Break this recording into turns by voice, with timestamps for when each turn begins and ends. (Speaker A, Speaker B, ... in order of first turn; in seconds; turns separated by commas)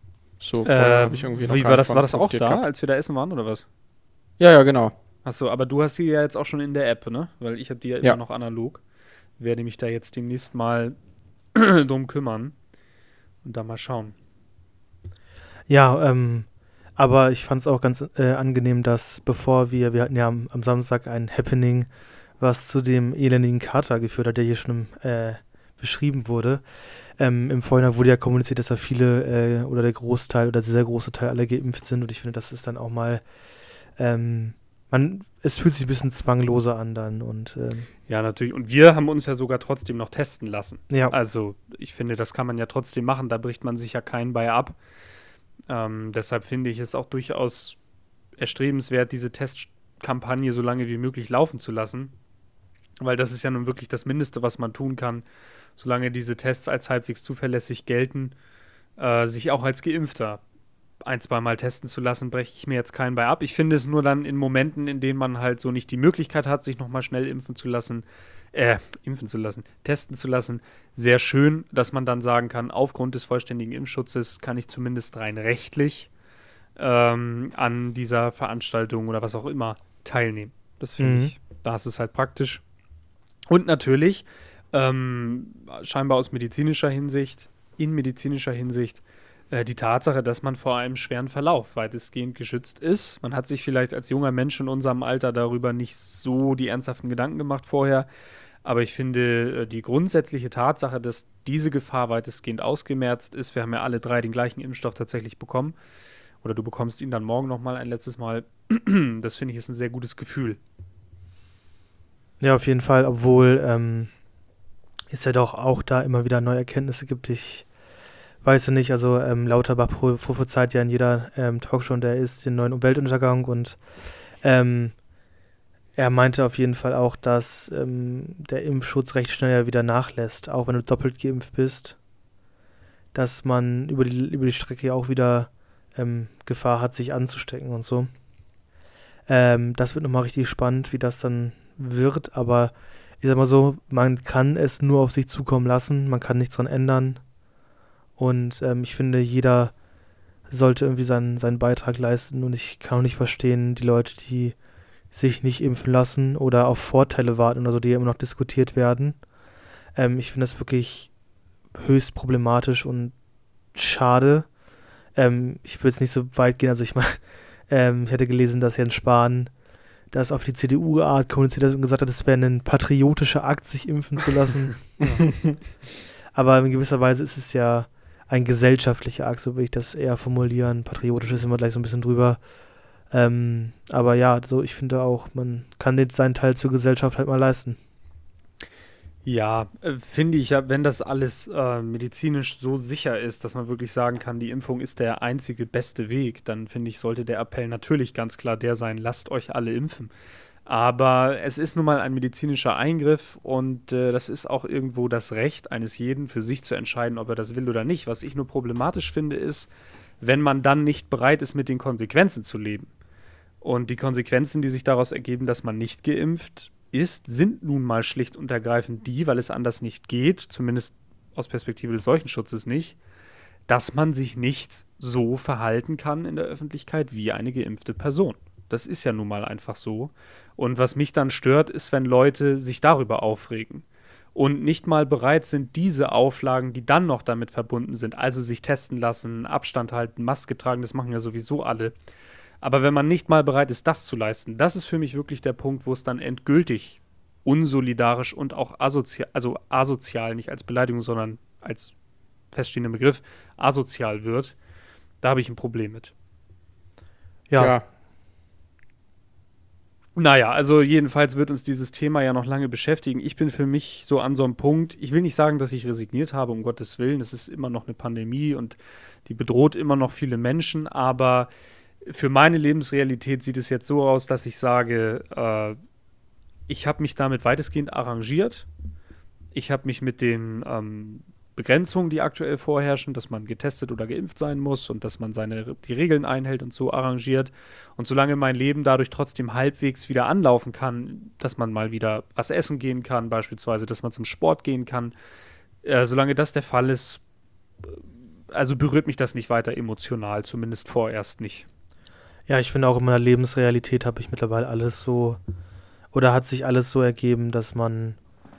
Speaker A: 0.4-2.6, Speaker B: 0.7-3.6, Speaker A: 4.4-4.9, Speaker B: 5.2-8.8, Speaker B: 9.4-10.9, Speaker B: 11.5-12.5, Speaker B: 13.4-14.1, Speaker C: 15.7-26.6, Speaker C: 27.1-33.2, Speaker C: 33.9-37.9, Speaker B: 38.1-44.8, Speaker B: 45.7-47.8, Speaker B: 48.4-52.1, Speaker B: 53.0-55.2, Speaker B: 55.8-58.3, Speaker B: 59.0-60.4, Speaker B: 61.0-76.1, Speaker B: 76.8-82.6, Speaker C: 81.0-81.3, Speaker B: 83.5-98.1, Speaker B: 98.6-105.7, Speaker B: 106.4-110.6, Speaker C: 112.4-114.1, Speaker C: 115.1-117.7, Speaker C: 118.4-125.0, Speaker C: 126.0-132.0, Speaker C: 133.1-138.1, Speaker C: 139.3-147.2, Speaker C: 148.2-149.8, Speaker C: 150.5-154.6, Speaker C: 155.1-159.3, Speaker C: 159.9-161.2, Speaker C: 161.7-163.2, Speaker C: 163.7-164.6, Speaker C: 165.1-169.5, Speaker C: 170.1-175.0, Speaker C: 176.3-182.4, Speaker C: 183.0-187.8, Speaker B: 189.2-200.1, Speaker B: 200.7-209.7, Speaker B: 210.2-212.9, Speaker B: 213.6-223.0, Speaker B: 223.7-233.8, Speaker B: 234.3-241.9, Speaker B: 242.6-251.9, Speaker B: 252.5-254.6, Speaker B: 255.2-256.1, Speaker C: 257.5-257.7, Speaker A: 257.6-257.8, Speaker B: 260.1-271.5, Speaker B: 272.0-275.8, Speaker B: 276.7-278.7, Speaker B: 279.5-295.1, Speaker B: 295.8-297.2, Speaker B: 297.8-301.6, Speaker C: 302.5-305.4, Speaker C: 306.1-308.2